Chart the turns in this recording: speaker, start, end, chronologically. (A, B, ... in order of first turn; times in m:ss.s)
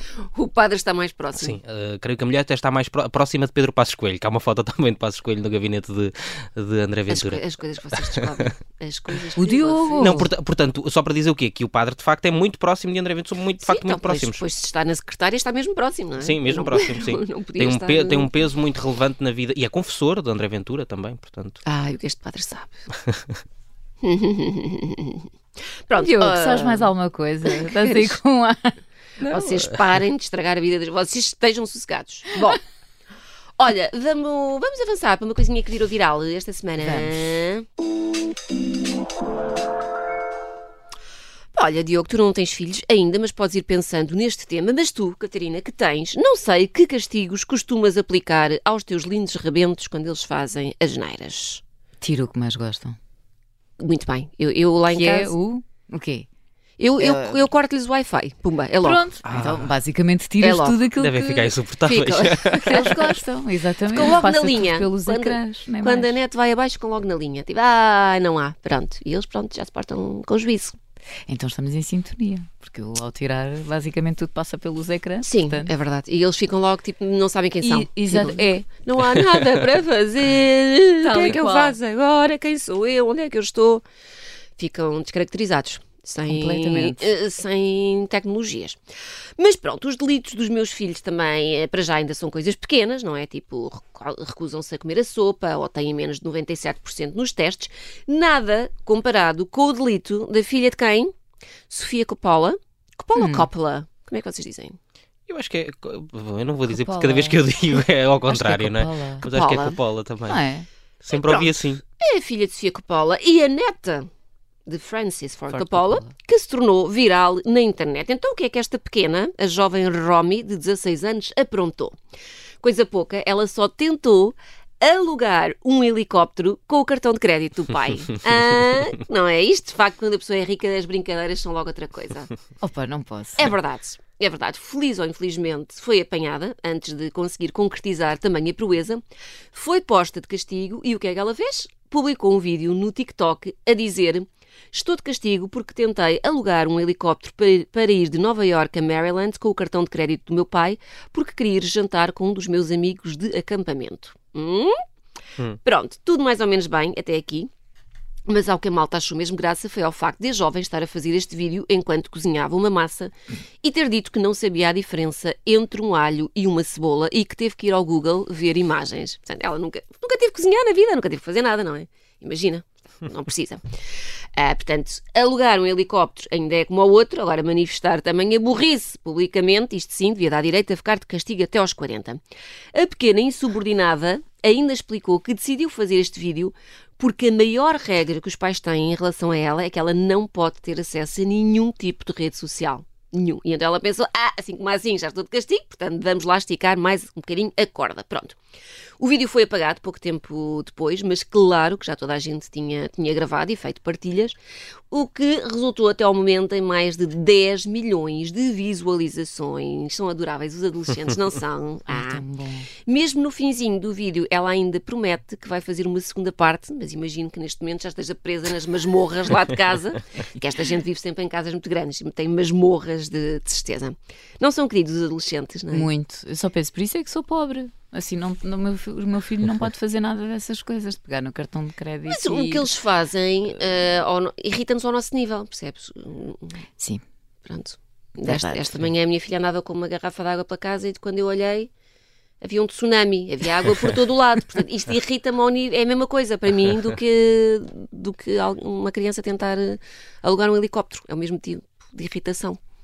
0:00.3-0:01.6 A
0:01.3-0:07.4 B
0:07.1-0:10.3 A
0:09.4-0:10.3 C
0:10.0-0:14.4 B
0:13.6-0:18.3 A
0:16.2-0:21.6 B
0:21.6-0:22.8 A
0:24.0-0:25.3 A
0:25.9-0:26.9 A
0:25.9-0:28.7 C
0:27.4-0:28.2 A
0:29.2-0:32.6 A
0:33.6-0:37.6 A
0:36.8-0:37.3 C
0:41.5-0:51.6 A
0:52.0-0:53.0 C
0:53.8-0:55.3 A
0:54.9-0:56.2 C
0:56.8-0:59.0 A
0:57.0-0:57.4 C
0:58.8-1:01.5 C
0:59.2-0:59.7 B
1:00.4-1:00.8 A
1:01.0-1:02.9 B
1:01.8-1:03.2 A
1:02.6-1:06.1 C
1:03.9-1:10.8 A
1:11.3-1:15.7 C
1:15.2-1:23.8 A
1:17.6-1:18.6 C
1:21.0-1:21.8 C
1:24.6-1:28.8 A
1:26.3-1:27.1 C
1:29.4-1:41.1 A
1:41.7-1:44.8 A
1:43.2-1:43.5 C
1:45.3-1:50.4 B
1:46.7-1:47.4 C
1:48.3-1:49.2 C
1:49.2-1:49.8 A
1:50.3-1:50.7 C
1:51.0-1:51.8 B
1:51.1-1:54.1 A
1:54.7-2:02.0 A
1:55.5-1:56.1 C
2:02.6-2:12.3 A
2:12.6-2:13.5 C
2:13.4-2:19.0 A
2:19.5-2:34.7 A
2:35.6-2:37.5 A
2:38.3-2:53.6 A
2:54.4-3:02.2 A
3:02.7-3:18.4 A
3:19.0-3:24.3 A
3:24.9-3:32.2 A
3:31.9-3:32.7 C
3:32.9-3:45.9 A
3:45.7-3:52.7 C
3:52.0-3:56.5 A
3:57.4-4:01.7 A
3:58.2-3:58.6 C
4:02.4-4:12.6 A